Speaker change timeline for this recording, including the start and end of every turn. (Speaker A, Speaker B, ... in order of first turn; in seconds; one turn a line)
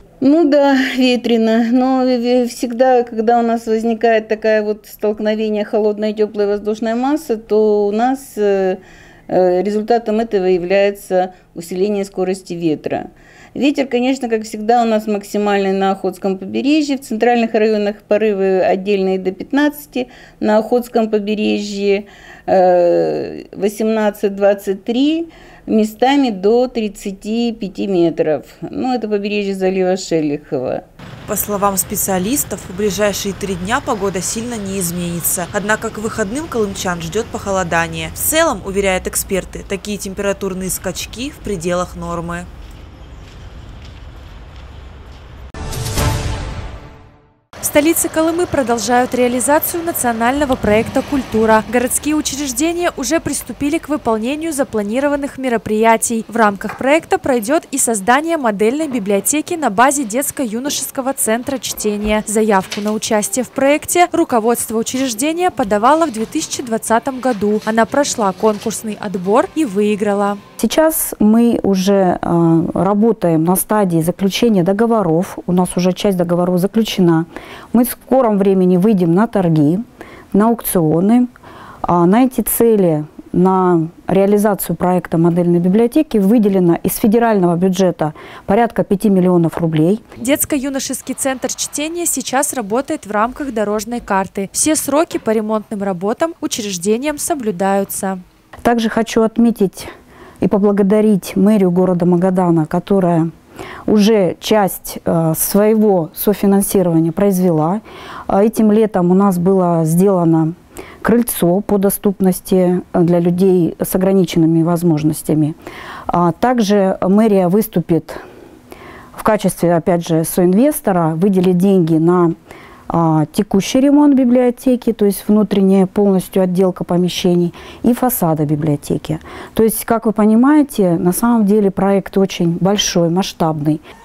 Speaker A: 0.2-30.8
Speaker B: 31.3-42.5
Speaker C: 47.6-70.4
Speaker D: 70.6-81.3
Speaker D: 81.8-90.0
Speaker C: 90.2-98.2
Speaker D: 98.7-99.9
Speaker D: 100.4-103.3
Speaker D: 103.9-115.5
Speaker D: 116.1-118.2
Speaker D: 119.1-122.3
Speaker D: 122.9-133.8